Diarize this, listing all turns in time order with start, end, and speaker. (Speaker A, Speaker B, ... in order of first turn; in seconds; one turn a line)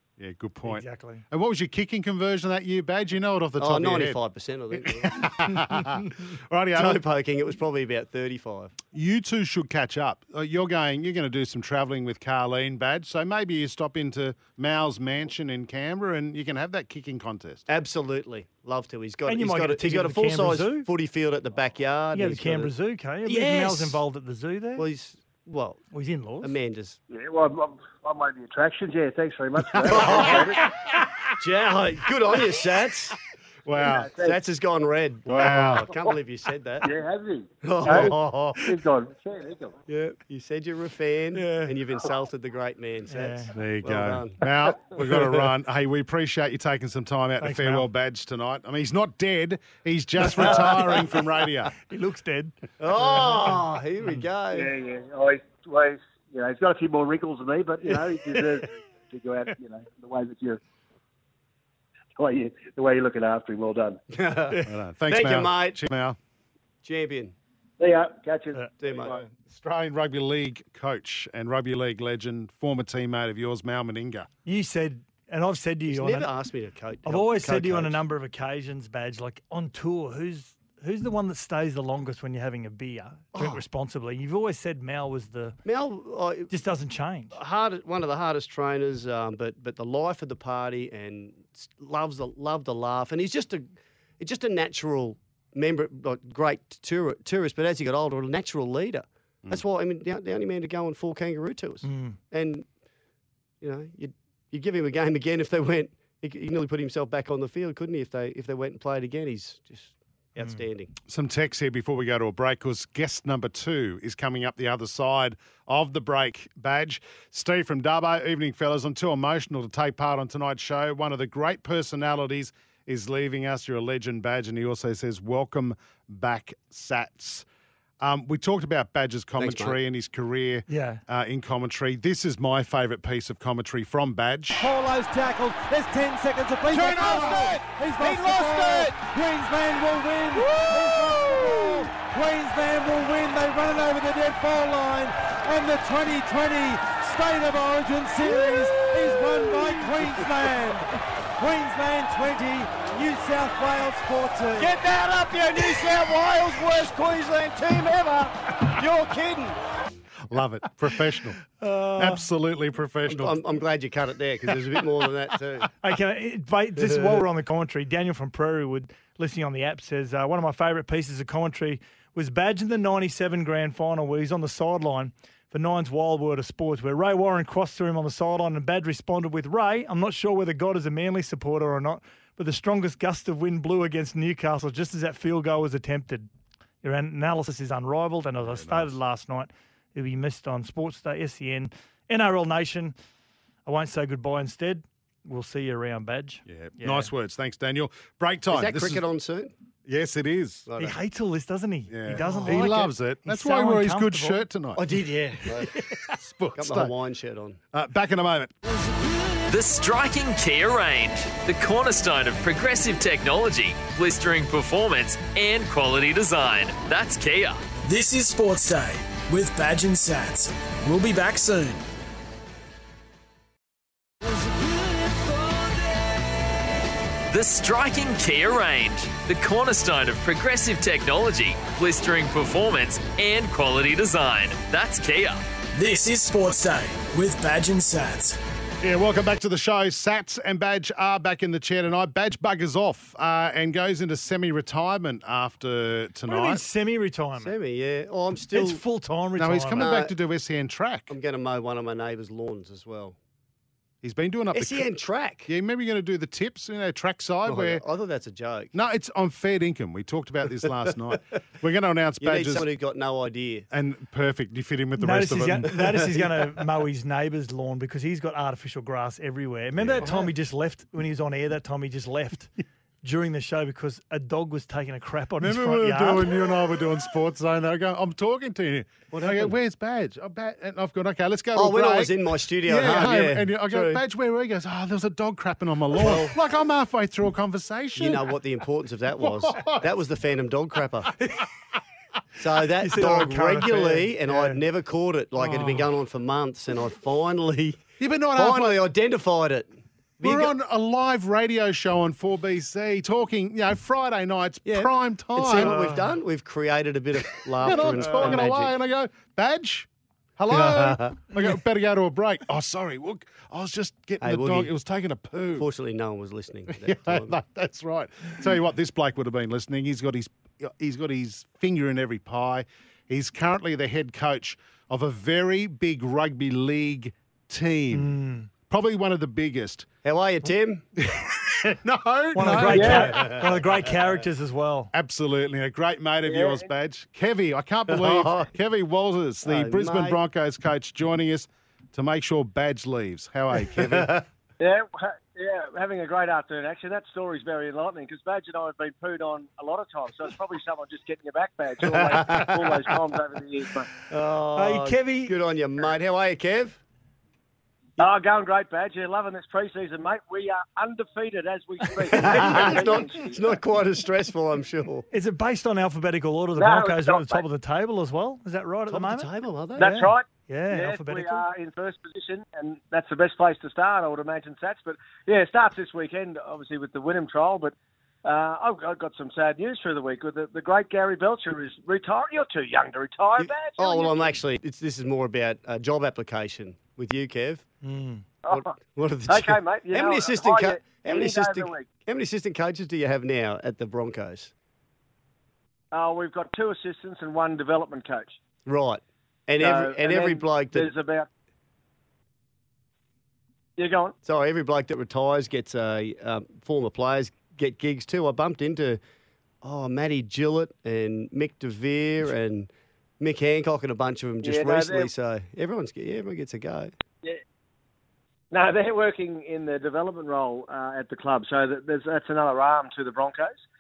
Speaker A: 0.2-4.2
Speaker B: 0.7-1.2
Speaker C: 3.6-5.3
Speaker A: 4.8-7.0
Speaker C: 6.8-8.7
Speaker A: 8.9-17.7
Speaker C: 17.7-22.7
Speaker B: 19.3-20.9
Speaker B: 22.1-24.9
Speaker C: 23.2-24.0
Speaker C: 24.8-25.8
Speaker B: 25.9-26.6
Speaker C: 26.4-27.0
Speaker D: 27.1-30.7
Speaker C: 29.8-30.5
Speaker A: 29.9-30.3
Speaker C: 31.4-33.2
Speaker A: 33.7-34.1
Speaker D: 33.8-34.4
Speaker C: 34.2-36.9
Speaker A: 35.3-35.9
Speaker D: 35.4-36.1
Speaker D: 36.8-39.8
Speaker C: 37.6-38.7
Speaker C: 39.9-44.4
Speaker B: 41.3-41.8
Speaker B: 43.1-43.5
Speaker A: 43.5-51.7
Speaker B: 47.4-47.9
Speaker B: 51.8-54.2
Speaker C: 52.8-54.7
Speaker D: 54.5-60.6
Speaker D: 62.2-64.0
Speaker C: 64.1-65.8
Speaker A: 64.6-66.2
Speaker C: 66.8-67.3
Speaker D: 67.8-69.2
Speaker C: 68.8-69.1
Speaker A: 69.2-74.3
Speaker B: 74.5-76.3
Speaker C: 75.9-78.0
Speaker B: 77.1-85.6
Speaker C: 83.3-83.6
Speaker C: 85.7-86.5
Speaker B: 86.5-87.4
Speaker C: 87.3-93.7
Speaker C: 94.2-102.7
Speaker B: 101.8-102.2
Speaker C: 103.6-110.9
Speaker A: 111.1-127.5
Speaker A: 128.0-134.7
Speaker C: 129.4-129.8
Speaker B: 130.7-131.0
Speaker E: 134.6-154.7
Speaker A: 136.9-137.2
Speaker A: 138.2-138.5
Speaker C: 154.6-159.6
Speaker A: 160.3-161.4
Speaker B: 161.6-162.2
Speaker A: 162.0-163.4
Speaker C: 163.1-165.7
Speaker B: 165.8-186.3
Speaker C: 166.8-167.2
Speaker B: 186.8-192.9
Speaker A: 188.4-188.9
Speaker B: 193.7-197.1
Speaker A: 196.5-199.0
Speaker C: 198.5-199.5
Speaker A: 199.9-200.7
Speaker C: 200.7-201.0
Speaker B: 200.8-204.4
Speaker A: 201.9-204.9
Speaker C: 204.8-205.8
Speaker A: 205.9-206.9
Speaker C: 206.6-207.6
Speaker A: 207.7-208.5
Speaker F: 209.5-217.7
Speaker G: 217.8-221.8
Speaker F: 227.3-235.4
Speaker G: 235.7-238.4
Speaker A: 238.8-246.6
Speaker B: 246.3-247.5
Speaker C: 247.4-248.8
Speaker B: 248.5-249.9
Speaker A: 249.4-251.1
Speaker C: 249.8-250.1
Speaker C: 251.1-253.2
Speaker A: 254.0-254.9
Speaker C: 254.5-255.5
Speaker A: 255.5-257.8
Speaker C: 257.4-258.7
Speaker A: 258.7-262.6
Speaker C: 262.2-263.7
Speaker A: 263.7-266.1
Speaker B: 265.0-272.5
Speaker A: 269.8-270.1
Speaker B: 273.0-276.3
Speaker A: 275.4-288.2
Speaker C: 279.1-279.6
Speaker C: 281.6-284.0
Speaker C: 285.9-286.4
Speaker C: 288.0-291.1
Speaker A: 289.2-289.9
Speaker C: 292.4-300.5
Speaker B: 292.8-294.6
Speaker A: 295.4-295.8
Speaker A: 298.0-298.8
Speaker A: 300.2-306.0
Speaker C: 304.7-308.7
Speaker B: 305.6-306.1
Speaker A: 307.6-315.7
Speaker C: 310.5-311.2
Speaker C: 314.2-314.7
Speaker C: 315.6-317.4
Speaker A: 316.7-329.9
Speaker B: 327.9-328.5
Speaker C: 330.0-330.9
Speaker A: 331.1-333.4
Speaker B: 332.3-334.9
Speaker C: 332.7-333.5
Speaker H: 332.7-333.1
Speaker A: 334.9-344.2
Speaker H: 336.2-336.7
Speaker C: 337.9-338.5
Speaker C: 339.4-340.2
Speaker C: 343.6-344.2
Speaker H: 344.6-353.9
Speaker C: 352.1-352.5
Speaker C: 354.1-356.8
Speaker B: 354.6-355.4
Speaker H: 358.0-363.5
Speaker C: 362.1-365.1
Speaker B: 365.1-371.4
Speaker H: 366.6-367.4
Speaker C: 368.9-369.9
Speaker H: 369.8-384.4
Speaker C: 383.4-387.7
Speaker B: 387.8-388.2
Speaker H: 388.4-388.7
Speaker C: 388.5-394.5
Speaker H: 389.3-391.9
Speaker H: 395.9-398.4
Speaker C: 398.7-400.9
Speaker H: 399.6-401.3
Speaker H: 403.8-404.1
Speaker C: 404.2-409.0
Speaker C: 409.6-416.9
Speaker H: 414.4-415.1
Speaker H: 418.5-423.6